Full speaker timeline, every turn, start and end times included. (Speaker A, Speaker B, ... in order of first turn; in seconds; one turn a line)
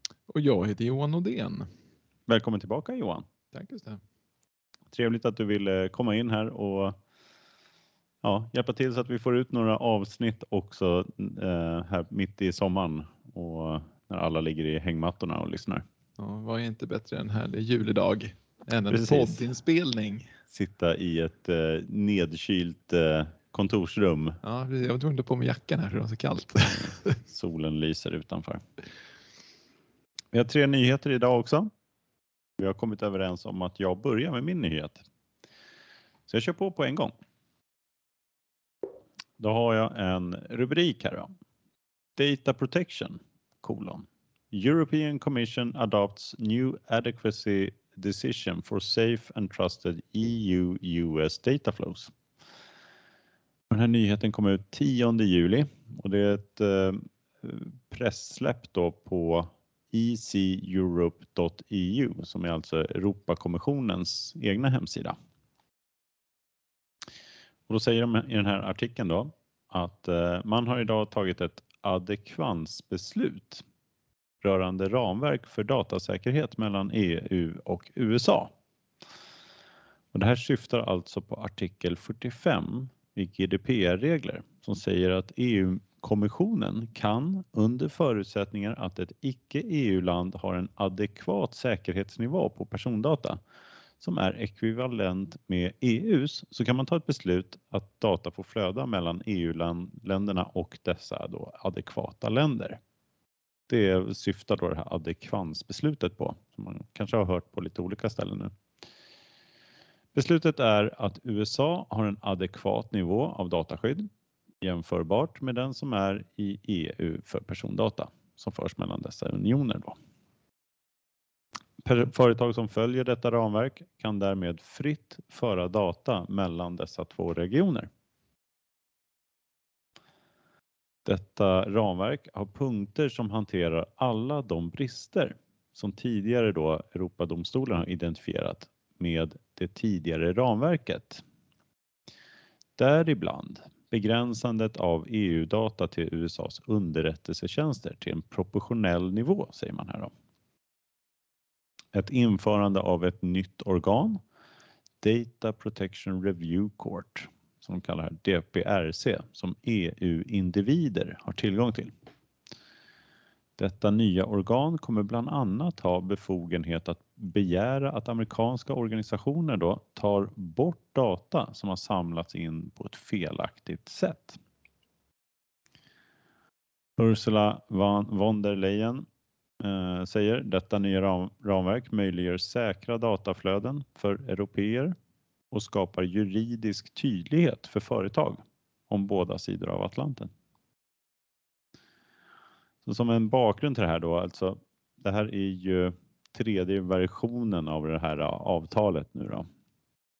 Speaker A: 0.3-1.7
Speaker B: 2.3-3.2
Speaker A: 3.5-4.0
Speaker B: 4.9-7.0
Speaker B: 8.2-15.8
Speaker A: 16.2-20.3
Speaker B: 18.9-19.4
Speaker B: 20.5-24.4
Speaker A: 24.4-27.2
Speaker B: 26.7-28.7
Speaker B: 30.3-31.7
Speaker B: 32.6-35.0
Speaker B: 36.3-37.1
Speaker B: 39.4-41.3
Speaker B: 42.2-52.1
Speaker B: 53.7-65.2
Speaker B: 67.7-73.6
Speaker B: 74.4-78.5
Speaker B: 80.1-93.4
Speaker B: 94.0-102.8
Speaker B: 103.7-108.5
Speaker B: 110.1-114.1
Speaker B: 114.6-120.0
Speaker B: 121.8-127.9
Speaker B: 131.1-141.2
Speaker B: 142.8-150.1
Speaker B: 151.9-154.2
Speaker B: 155.0-161.9
Speaker B: 163.6-174.4
Speaker B: 177.0-179.1
Speaker B: 179.6-184.9
Speaker B: 185.5-190.3
Speaker B: 192.8-199.5